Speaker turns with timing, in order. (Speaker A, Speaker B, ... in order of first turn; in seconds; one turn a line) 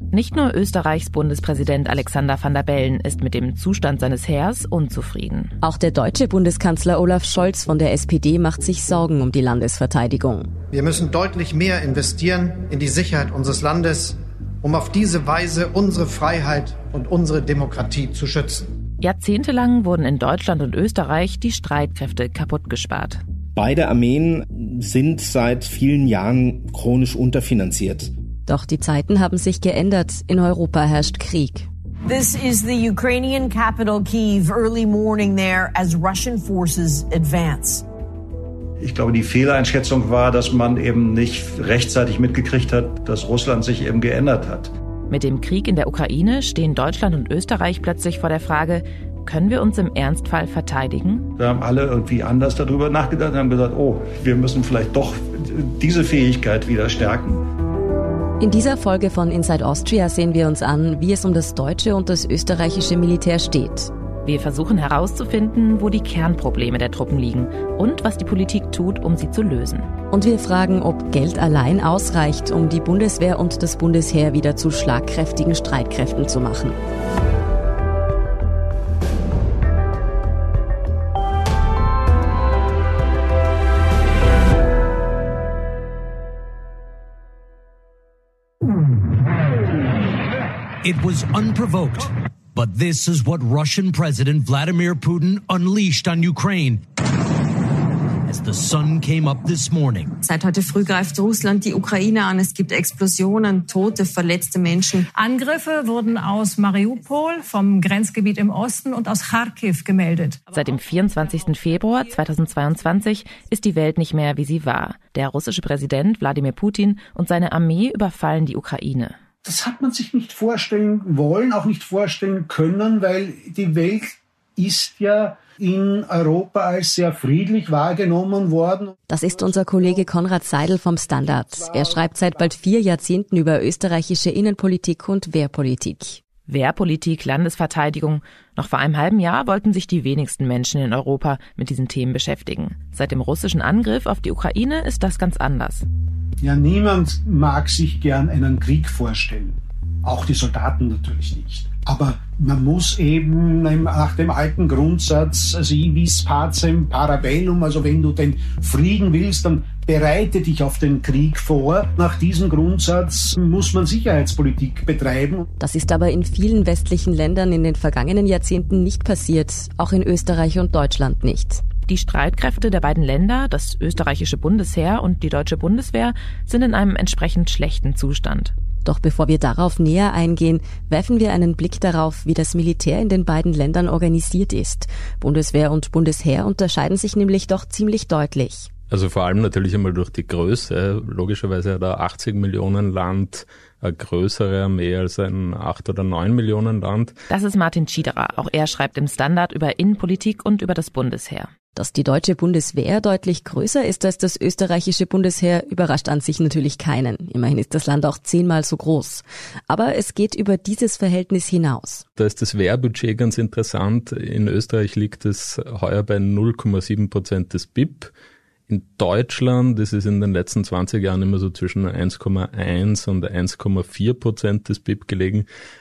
Speaker A: 0.1-5.6
Speaker B: 5.6-10.5
Speaker C: 10.7-18.7
Speaker A: 19.0-23.2
Speaker D: 23.6-28.1
Speaker B: 28.5-31.7
Speaker E: 32.1-37.9
Speaker F: 38.8-44.7
Speaker A: 45.1-51.3
Speaker F: 51.4-57.4
Speaker B: 58.4-63.9
Speaker A: 64.2-69.9
Speaker B: 70.1-76.8
Speaker G: 90.8-96.8
Speaker G: 98.2-100.2
Speaker H: 100.2-105.1
Speaker I: 105.1-110.4
Speaker A: 110.5-119.2
Speaker J: 119.4-128.9
Speaker B: 129.1-136.2
Speaker A: 136.5-145.9
Speaker J: 146.4-165.5
Speaker B: 165.6-171.6
Speaker A: 171.9-178.5
Speaker B: 178.8-188.7
Speaker K: 188.9-197.2
Speaker A: 197.3-201.5
Speaker B: 201.8-212.0
Speaker K: 212.2-218.1
Speaker K: 218.7-225.5